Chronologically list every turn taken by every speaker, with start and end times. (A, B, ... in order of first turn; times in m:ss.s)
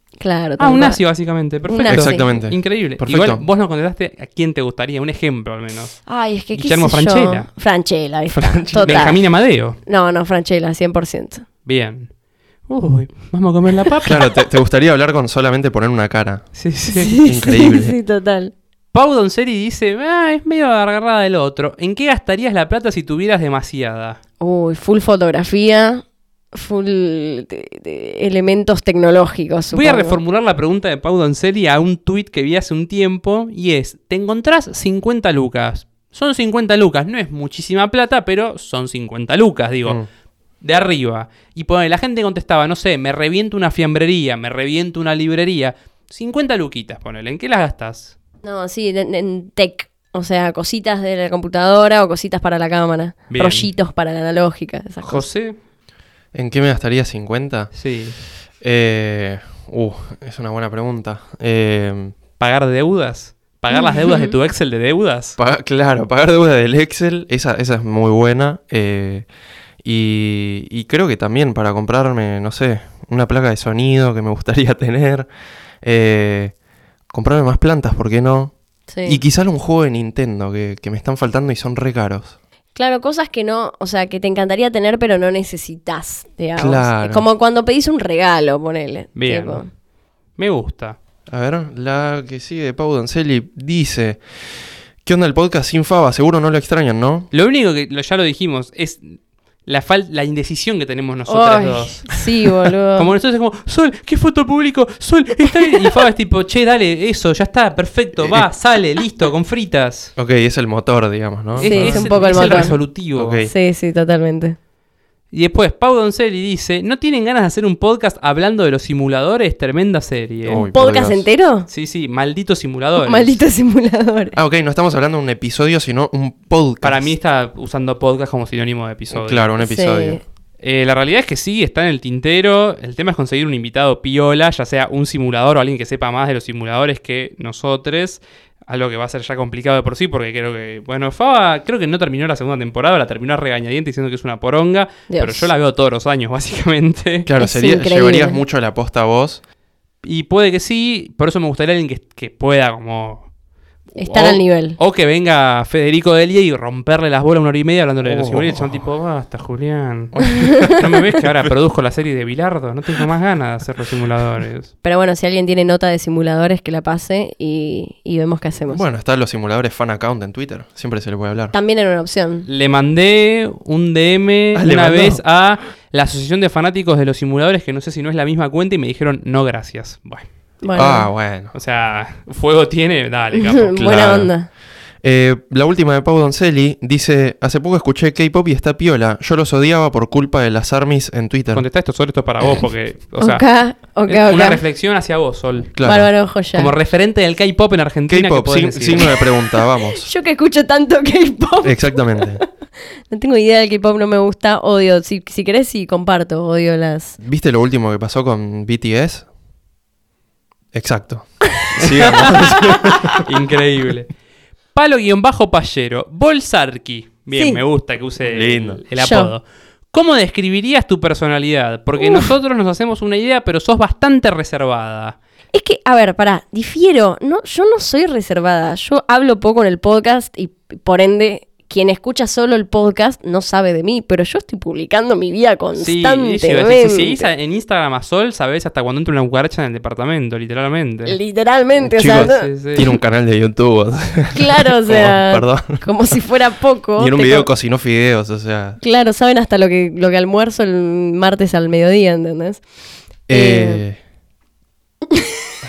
0:00.2-0:01.0 A
0:00.6-0:06.0 B
0:01.7-0:02.2 A
0:01.9-0:03.4 C
0:06.1-0:09.2 A
0:06.5-0:07.5 B
0:08.3-0:09.1 C
0:08.8-0:09.8 B
0:09.8-0:11.4 A
0:11.7-0:12.1 B
0:12.7-0:14.2 B
0:14.0-0:16.5 C
0:16.6-0:17.2 B
0:16.9-0:18.5 A
0:17.2-0:18.0 C
0:18.9-0:24.2 B
0:24.4-0:30.2 A
0:29.7-0:40.0 B
0:40.6-0:48.2 B
0:48.4-0:55.3 A
0:53.3-0:53.7 B
0:55.0-0:55.6 B
0:56.3-0:57.7 C
0:57.7-0:58.2 B
0:58.6-1:02.2 C
1:02.4-1:05.4 B
1:03.7-1:04.4 A
1:05.4-1:09.3 C
1:09.8-1:15.3 C
1:15.8-1:16.5 C
1:17.1-1:18.5 C
1:18.9-1:19.2 A
1:19.0-1:22.4 C
1:22.8-1:29.7 A
1:26.6-1:27.2 C
1:29.2-1:29.6 B
1:30.4-1:31.0 B
1:31.3-1:34.2 C
1:35.0-1:37.3 C
1:37.3-1:42.2 B
1:41.3-1:43.1 A
1:43.0-1:50.1 B
1:48.2-1:48.5 C
1:50.2-1:53.5 C
1:51.6-1:53.4 B
1:51.6-1:52.8 A
1:53.5-1:54.6 A
1:55.3-2:00.7 B
2:00.4-2:01.3 C
2:00.6-2:01.7 A
2:01.7-2:03.4 B
2:03.0-2:04.4 A
2:04.4-2:07.1 C
2:06.8-2:09.5 B
2:09.1-2:10.2 C
2:09.6-2:10.2 A
2:10.6-2:27.3 B
2:25.1-2:25.5 A
2:27.3-2:29.4 C
2:27.4-2:28.4 A
2:30.0-2:33.3 B
2:34.0-2:44.7 B
2:34.0-2:34.8 A
2:38.0-2:38.8 C
2:40.2-2:41.5 C
2:44.8-2:48.8 A
2:48.7-2:51.5 C
2:51.5-2:52.5 A
2:52.5-3:00.2 B
2:54.5-2:55.2 C
3:00.6-3:01.1 A
3:00.7-3:01.5 C
3:01.5-3:03.8 B
3:03.4-3:04.5 A
3:03.7-3:04.3 C
3:05.0-3:11.6 C
3:11.5-3:13.4 B
3:13.2-3:14.6 A
3:14.1-3:15.7 B
3:15.7-3:16.1 C
3:15.8-3:16.7 A
3:16.5-3:19.1 B
3:18.1-3:20.1 C
3:19.9-3:22.5 A
3:21.6-3:22.4 C
3:23.1-3:27.2 A
3:27.2-3:29.3 C
3:30.7-3:33.2 C
3:31.8-3:34.1 B
3:34.8-3:45.2 B
3:37.3-3:37.6 A
3:38.2-3:38.8 C
3:39.0-3:39.3 A
3:42.0-3:42.3 A
3:45.5-3:57.3 A
3:55.8-4:01.2 B
4:01.0-4:02.5 A
4:01.8-4:05.8 C
4:02.0-4:02.9 B
4:04.3-4:07.5 A
4:07.0-4:08.8 C
4:08.8-4:12.6 A
4:13.3-4:14.0 C
4:13.3-4:13.8 A